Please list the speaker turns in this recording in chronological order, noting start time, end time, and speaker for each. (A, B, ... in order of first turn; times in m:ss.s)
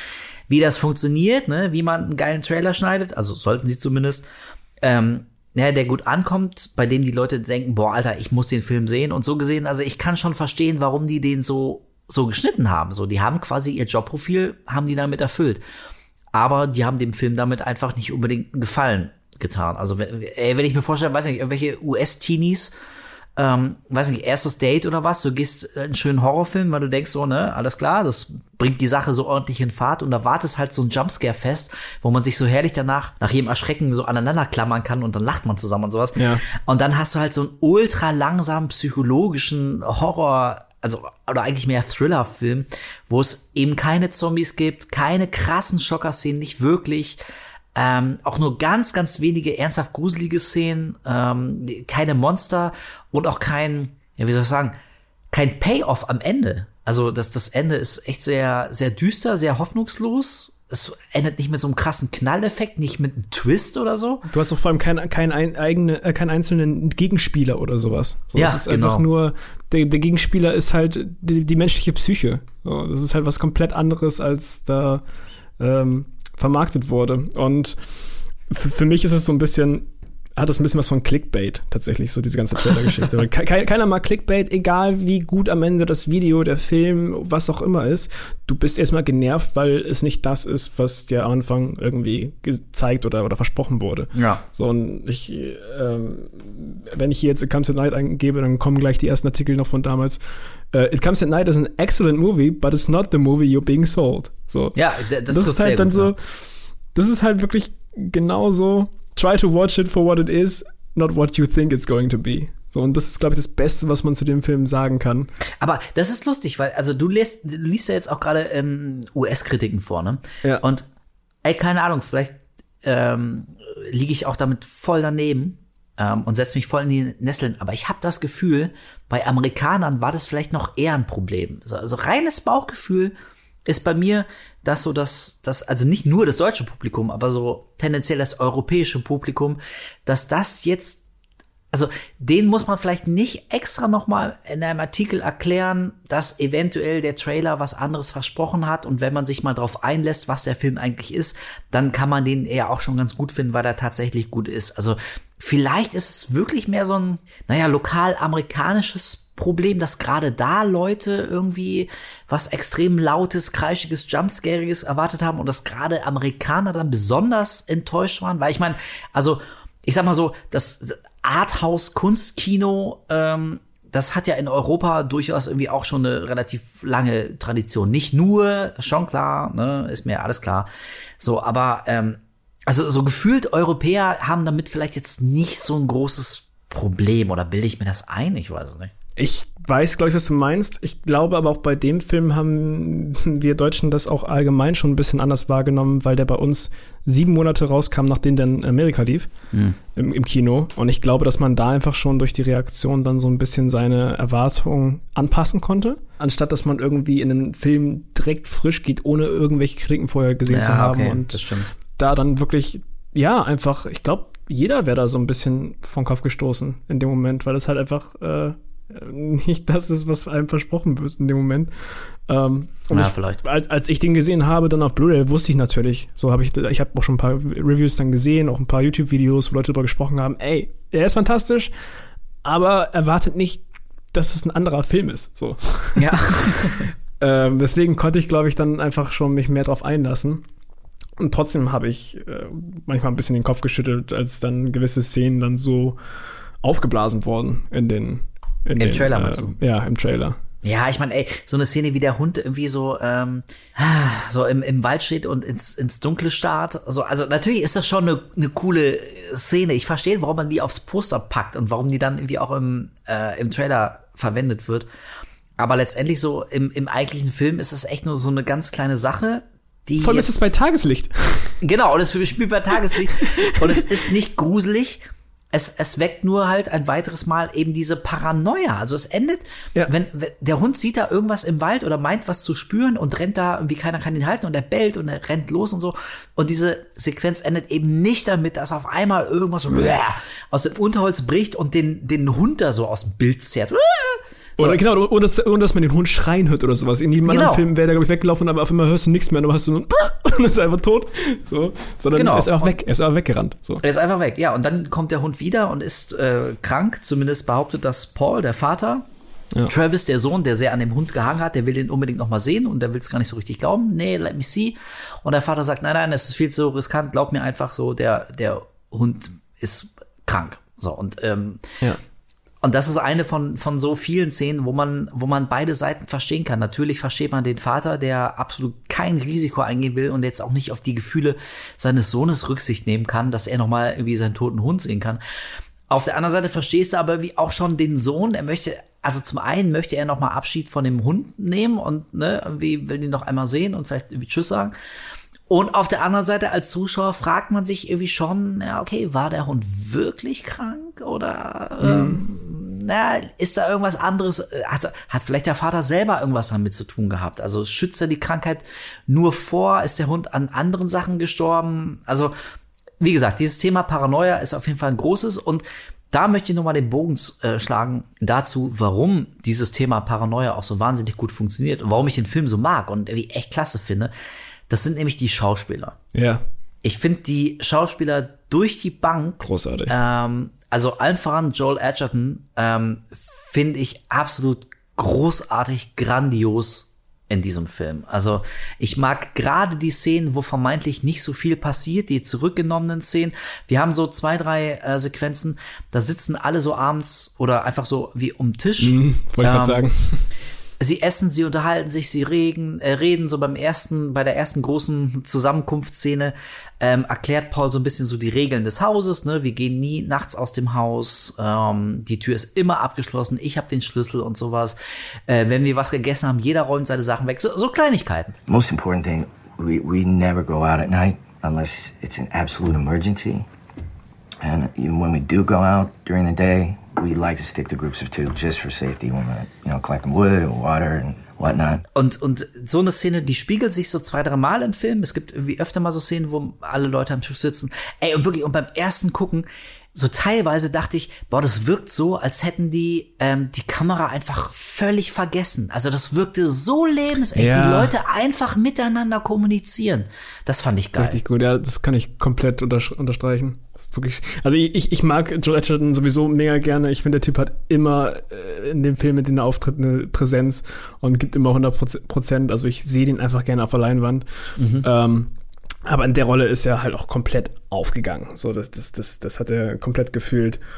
0:00.5-0:04.2 A
0:04.8-0:15.6 A
0:16.3-0:22.7 A
0:23.4-0:47.2 A
0:36.2-0:36.4 B
0:47.7-0:54.7 A
0:55.3-1:04.2 A
1:04.3-1:15.0 B
1:08.3-1:09.0 A
1:15.6-1:17.8 B
1:18.5-1:40.2 B
1:34.1-1:34.4 A
1:40.7-1:44.8 B
1:44.7-1:46.1 A
1:45.3-1:46.4 B
1:46.9-1:55.3 B
1:55.6-2:00.8 A
2:01.4-2:13.1 A
2:13.6-2:21.0 A
2:21.7-3:00.7 A
3:01.2-3:08.9 A
3:09.2-3:19.3 B
3:19.9-3:31.4 B
3:30.5-3:31.7 A
3:32.0-3:51.7 B
3:42.9-3:43.4 A
3:52.4-3:56.6 B
3:56.0-3:56.9 A
3:57.2-4:00.4 B
4:01.2-4:06.0 B
4:06.6-4:10.4 B
4:08.8-4:09.5 A
4:10.6-4:24.8 A
4:25.6-4:30.3 A
4:30.0-4:31.5 B
4:31.6-4:54.8 A
4:33.0-4:33.5 B
4:54.6-5:03.8 B
4:57.3-4:57.6 A
5:02.1-5:02.6 A
5:03.8-5:09.0 A
5:09.7-5:21.7 A
5:22.6-5:35.2 A
5:35.9-5:44.7 A
5:45.5-6:02.3 A
5:51.8-5:52.2 B
6:03.0-6:14.1 A
6:14.7-6:16.0 A
6:16.1-6:16.4 B
6:16.8-6:39.8 A
6:19.4-6:19.9 B
6:38.8-6:40.3 B
6:40.8-6:54.8 A
6:55.3-6:58.4 A
6:58.5-7:03.5 C
7:04.4-7:11.8 C
7:11.9-7:31.2 A
7:27.3-7:27.9 B
7:31.0-7:44.2 B
7:44.6-7:44.9 A
7:44.8-7:45.3 B
7:45.8-7:50.6 B